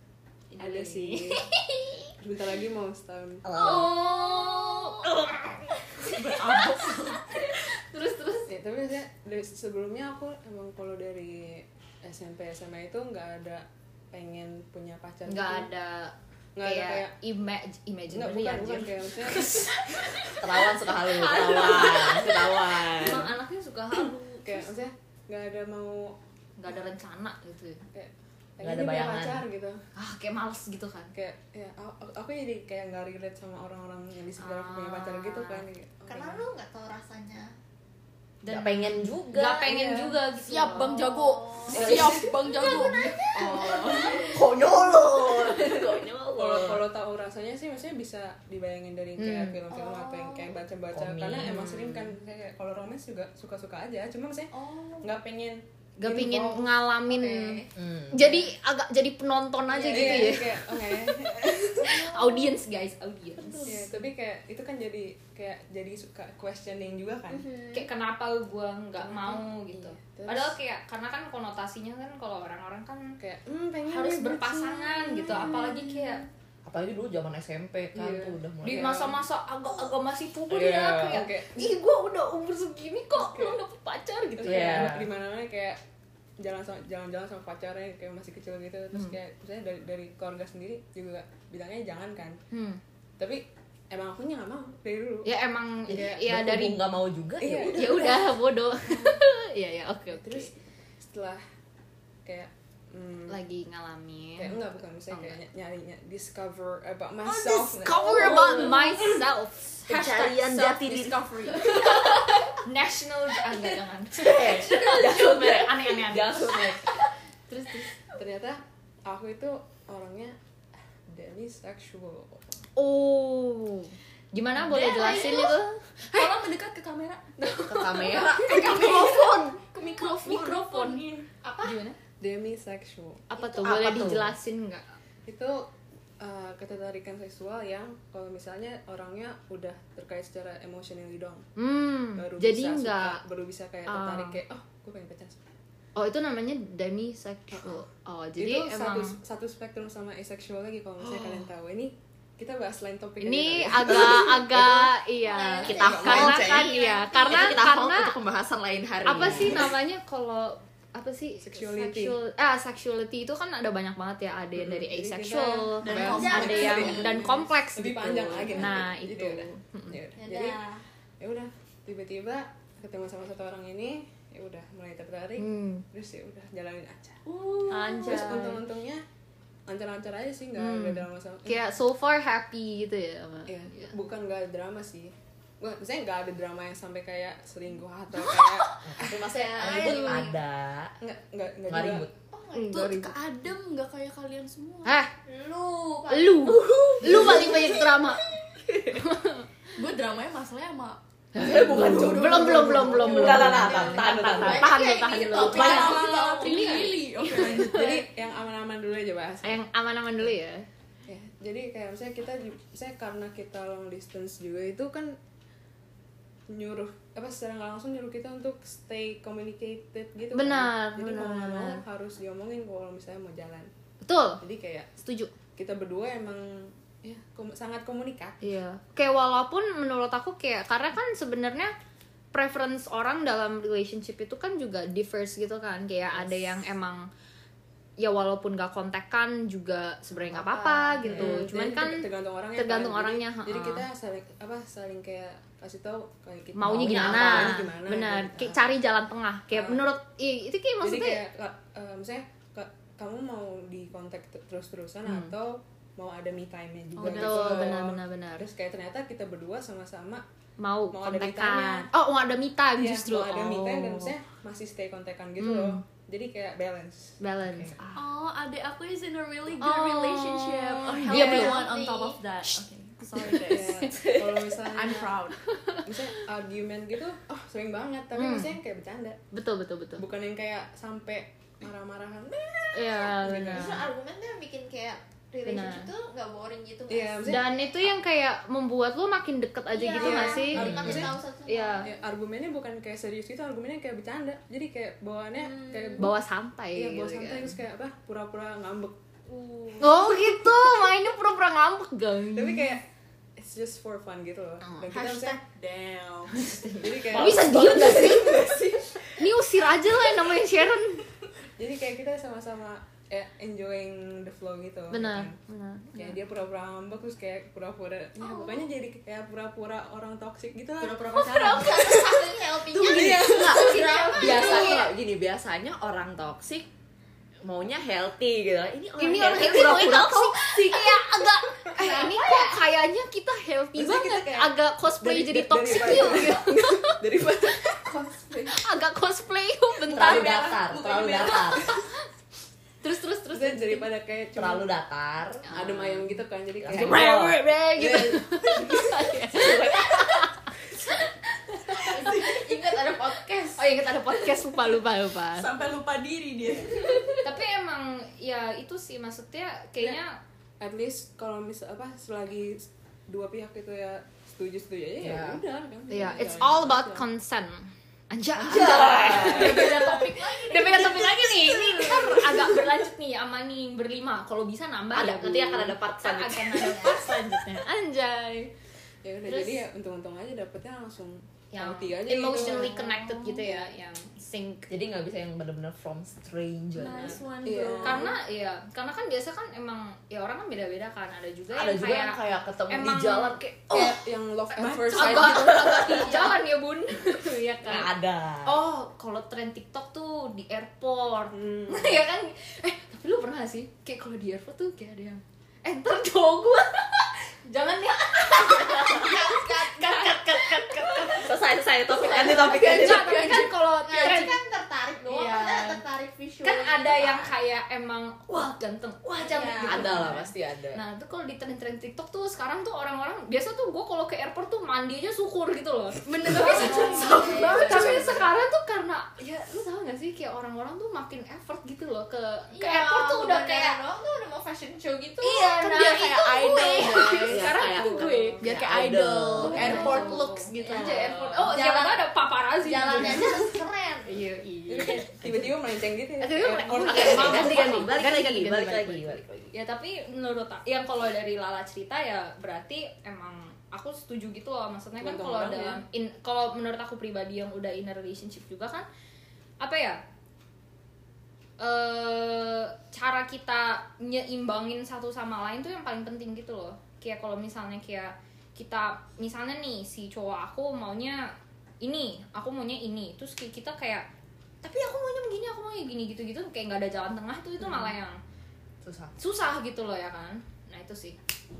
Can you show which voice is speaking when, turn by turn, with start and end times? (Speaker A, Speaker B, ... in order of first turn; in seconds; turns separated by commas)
Speaker A: 0.5-2.1, Speaker B: 0.6-1.4, Speaker B: 2.2-3.4, Speaker C: 3.4-4.0, Speaker A: 3.5-8.5, Speaker D: 6.0-7.3, Speaker B: 8.5-15.7, Speaker A: 15.2-19.7, Speaker B: 16.5-17.1, Speaker B: 18.1-19.8, Speaker C: 20.4-23.3, Speaker D: 21.1-22.5, Speaker A: 21.3-22.2, Speaker A: 22.8-24.7, Speaker B: 24.4-26.2, Speaker A: 26.6-27.8, Speaker B: 27.9-29.8, Speaker C: 28.6-29.4, Speaker A: 29.9-31.1, Speaker B: 31.1-36.5, Speaker A: 34.4-35.6, Speaker E: 36.1-37.5, Speaker A: 38.4-41.2, Speaker C: 38.5-39.7, Speaker B: 39.7-40.2, Speaker D: 40.4-44.3, Speaker E: 41.0-45.1, Speaker B: 41.7-42.3, Speaker C: 41.7-42.2, Speaker A: 42.6-43.6, Speaker C: 44.2-46.8, Speaker B: 46.4-56.7, Speaker A: 49.2-49.6, Speaker E: 49.7-50.5, Speaker C: 50.9-52.1, Speaker E: 54.5-55.2, Speaker A: 56.0-63.9, Speaker E: 57.1-57.7, Speaker C: 57.8-58.1, Speaker E: 59.7-60.3, Speaker B: 59.9-62.2, Speaker B: 63.6-67.5, Speaker E: 67.3-67.9, Speaker A: 67.7-73.1, Speaker B: 69.0-70.5, Speaker B: 73.2-75.7, Speaker A: 73.8-76.2, Speaker E: 75.7-76.0, Speaker C: 76.7-79.1, Speaker B: 77.9-79.1, Speaker A: 78.6-84.9, Speaker C: 80.5-81.2, Speaker B: 81.0-81.8, Speaker B: 83.1-83.6, Speaker B: 84.4-85.8, Speaker C: 84.4-85.1, Speaker B: 86.4-92.4, Speaker A: 92.5-92.8, Speaker B: 93.2-95.3, Speaker A: 95.2-96.8, Speaker C: 95.9-98.1, Speaker B: 97.4-98.2, Speaker A: 97.7-100.5, Speaker B: 98.9-99.2, Speaker B: 100.1-101.4, Speaker B: 102.2-103.4, Speaker A: 103.3-104.6, Speaker B: 104.4-108.6, Speaker A: 105.1-105.4, Speaker D: 107.3-108.5, Speaker A: 107.8-110.2, Speaker C: 108.1-109.2, Speaker C: 109.9-111.2, Speaker D: 109.9-112.2, Speaker A: 111.5-116.5, Speaker C: 114.1-116.9, Speaker A: 117.5-117.9, Speaker B: 118.1-120.3, Speaker B: 121.1-122.5, Speaker A: 122.8-125.8, Speaker D: 124.6-131.3, Speaker C: 127.6-129.3, Speaker A: 128.2-128.9, Speaker A: 130.2-131.1, Speaker E: 131.4-131.8, Speaker A: 131.6-132.0, Speaker B: 132.2-133.3, Speaker A: 133.3-134.8, Speaker C: 133.3-134.3, Speaker B: 135.2-135.7, Speaker B: 136.2-141.4, Speaker A: 141.6-143.2, Speaker B: 142.1-145.5, Speaker A: 143.9-144.4, Speaker A: 145.9-149.2, Speaker B: 147.6-147.8, Speaker B: 148.4-154.5, Speaker A: 153.2-158.2, Speaker C: 153.9-154.4, Speaker E: 155.2-157.6, Speaker C: 155.6-159.7, Speaker B: 155.7-156.3, Speaker A: 159.0-170.0, Speaker B: 161.4-162.2, Speaker B: 164.7-170.6, Speaker D: 165.8-167.4, Speaker E: 166.1-167.0, Speaker E: 170.2-170.8, Speaker B: 171.2-177.2, Speaker A: 175.4-175.8, Speaker D: 177.2-178.3, Speaker A: 177.7-178.6, Speaker B: 178.0-179.0, Speaker B: 179.7-181.6, Speaker A: 180.5-183.9, Speaker B: 183.5-189.2, Speaker A: 188.2-188.8, Speaker C: 188.8-190.9, Speaker E: 189.5-190.3, Speaker A: 189.6-190.3, Speaker B: 191.0-192.1, Speaker C: 191.7-192.1, Speaker E: 192.3-192.8, Speaker A: 192.5-193.1, Speaker D: 192.7-194.9, Speaker A: 194.8-195.1, Speaker E: 195.2-197.8, Speaker A: 196.1-198.2, Speaker C: 196.7-197.6, Speaker A: 198.9-199.5, Speaker D: 199.8-201.0, Speaker A: 201.3-208.0, Speaker C: 201.4-204.8, Speaker D: 201.5-204.1, Speaker E: 203.3-206.8, Speaker C: 205.3-206.1, Speaker D: 205.4-207.9, Speaker B: 205.6-206.8, Speaker B: 207.6-209.6, Speaker A: 209.4-210.7, Speaker B: 211.1-215.2, Speaker B: 216.5-223.7, Speaker A: 220.3-221.8, Speaker A: 224.0-224.4, Speaker B: 224.4-224.9, Speaker A: 225.0-225.3, Speaker B: 225.6-228.5, Speaker A: 228.4-231.7, Speaker A: 232.3-237.1, Speaker B: 236.1-236.5, Speaker A: 238.0-243.8, Speaker B: 240.3-248.6, Speaker C: 241.0-241.4, Speaker A: 246.5-251.2, Speaker C: 246.6-247.6, Speaker B: 249.5-249.8, Speaker B: 250.8-260.2, Speaker A: 255.0-255.3, Speaker A: 257.0-258.4, Speaker A: 260.6-264.1, Speaker B: 260.9-261.9, Speaker B: 262.8-267.2, Speaker A: 265.4-265.8, Speaker A: 267.2-267.8, Speaker C: 267.5-267.8, Speaker D: 267.9-273.9, Speaker A: 269.6-271.6, Speaker E: 271.1-272.2, Speaker A: 273.1-274.4, Speaker B: 273.5-275.2, Speaker D: 274.6-275.4, Speaker A: 275.4-276.1, Speaker B: 275.8-279.2, Speaker A: 278.1-278.6, Speaker A: 279.3-280.0, Speaker B: 280.0-283.8, Speaker A: 282.7-283.9, Speaker E: 283.4-287.5, Speaker A: 285.4-285.9, Speaker B: 286.9-287.5, Speaker A: 287.2-291.9, Speaker E: 289.7-292.0, Speaker B: 289.9-291.2, Speaker C: 290.5-291.1, Speaker B: 291.8-296.1, Speaker E: 295.4-296.1, Speaker A: 296.0-297.6, Speaker B: 296.7-298.9, Speaker A: 299.8-302.8, Speaker B: 302.3-302.9, Speaker B: 303.4-305.4, Speaker D: 304.9-306.3, Speaker A: 306.3-308.5, Speaker B: 306.7-308.8, Speaker C: 306.9-309.0, Speaker A: 309.1-311.1, Speaker B: 311.6-315.4, Speaker A: 314.9-316.2, Speaker B: 315.9-321.1, Speaker E: 318.2-318.6, Speaker D: 320.8-322.1, Speaker E: 321.1-324.9, Speaker B: 322.9-323.7, Speaker D: 322.9-323.8, Speaker C: 322.9-326.7, Speaker A: 323.6-324.9, Speaker C: 327.4-330.7, Speaker A: 329.0-337.0, Speaker E: 331.7-332.6, Speaker B: 333.7-338.6, Speaker A: 338.4-340.5, Speaker D: 339.9-341.7, Speaker C: 339.9-341.7, Speaker A: 342.8-343.9, Speaker B: 343.3-344.7, Speaker C: 344.3-345.5, Speaker A: 345.5-346.2, Speaker B: 345.5-349.0, Speaker C: 346.6-347.4, Speaker A: 346.7-352.3, Speaker C: 349.3-350.2, Speaker E: 351.9-353.7, Speaker A: 353.6-355.5, Speaker D: 355.3-357.3, Speaker A: 357.2-360.2, Speaker B: 360.6-367.0, Speaker C: 365.0-365.4, Speaker A: 365.9-378.5, Speaker C: 368.4-369.8, Speaker B: 368.6-369.6, Speaker D: 369.2-371.6, Speaker C: 374.9-377.0, Speaker B: 379.0-382.8, Speaker A: 379.2-379.6, Speaker A: 381.5-384.7, Speaker D: 382.3-383.4, Speaker C: 384.7-387.2, Speaker D: 386.8-388.1, Speaker B: 387.4-388.1, Speaker A: 387.8-393.9, Speaker C: 391.5-394.0, Speaker B: 393.7-396.3, Speaker A: 394.5-397.9, Speaker C: 395.0-396.1, Speaker C: 397.6-398.6, Speaker A: 398.4-411.3, Speaker B: 401.3-402.0, Speaker C: 408.4-409.0, Speaker E: 408.9-411.2, Speaker C: 410.0-413.3, Speaker A: 412.0-414.4, Speaker D: 412.2-414.1, Speaker E: 413.8-417.3, Speaker A: 415.1-415.8, Speaker A: 416.4-433.8, Speaker E: 419.2-420.1, Speaker C: 419.6-420.8, Speaker D: 426.1-428.1, Speaker E: 426.4-428.2, Speaker C: 426.8-428.2, Speaker E: 432.5-435.5, Speaker A: 435.2-438.4, Speaker D: 435.3-437.7, Speaker C: 437.2-440.1, Speaker B: 438.0-438.3, Speaker D: 438.4-441.3, Speaker A: 439.4-445.4, Speaker E: 439.6-440.1, Speaker E: 440.8-442.1, Speaker E: 442.6-444.2, Speaker B: 444.7-447.8, Speaker A: 446.2-458.9, Speaker C: 446.8-449.5, Speaker B: 455.0-455.8, Speaker A: 459.6-460.0, Speaker A: 461.6-471.3, Speaker A: 471.8-474.1, Speaker A: 474.6-478.2, Speaker C: 478.8-479.1, Speaker A: 479.2-481.2